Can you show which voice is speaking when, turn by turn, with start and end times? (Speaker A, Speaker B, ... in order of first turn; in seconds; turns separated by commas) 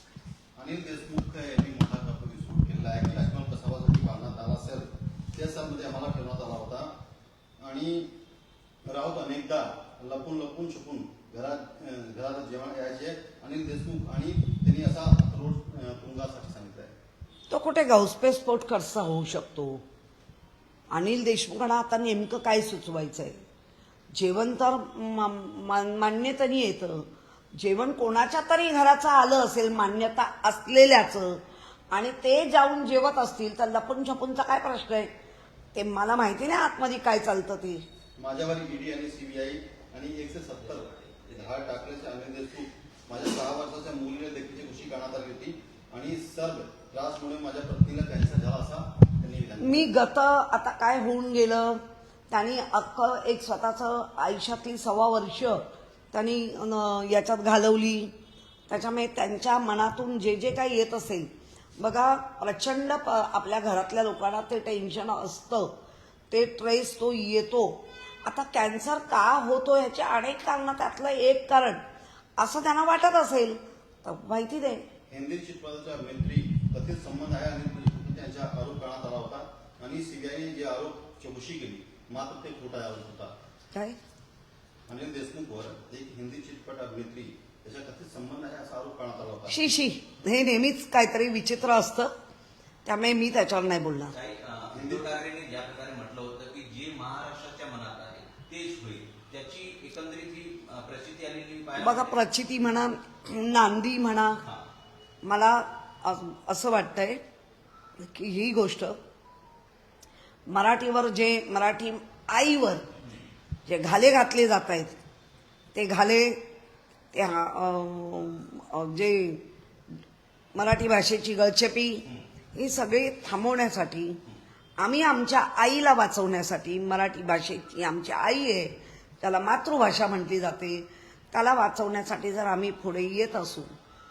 Speaker A: 0.6-6.9, Speaker A: 7.6-8.1, Speaker A: 8.8-16.9, Speaker B: 17.5-19.8, Speaker B: 20.9-23.4, Speaker B: 24.1-35.1, Speaker B: 35.7-37.8, Speaker A: 38.2-49.9, Speaker C: 40.7-41.5, Speaker B: 49.6-58.1, Speaker B: 58.7-65.7, Speaker B: 66.3-71.8, Speaker B: 72.4-74.8, Speaker A: 75.1-83.3, Speaker B: 83.7-84.0, Speaker A: 84.9-89.7, Speaker B: 89.5-92.1, Speaker B: 92.8-94.1, Speaker C: 94.1-102.3, Speaker A: 94.7-95.1, Speaker B: 101.8-104.4, Speaker B: 105.2-107.2, Speaker B: 108.0-109.0, Speaker B: 110.5-112.8, Speaker B: 113.7-115.0, Speaker B: 115.7-116.4, Speaker B: 117.1-119.4, Speaker B: 120.5-124.2, Speaker B: 124.8-133.7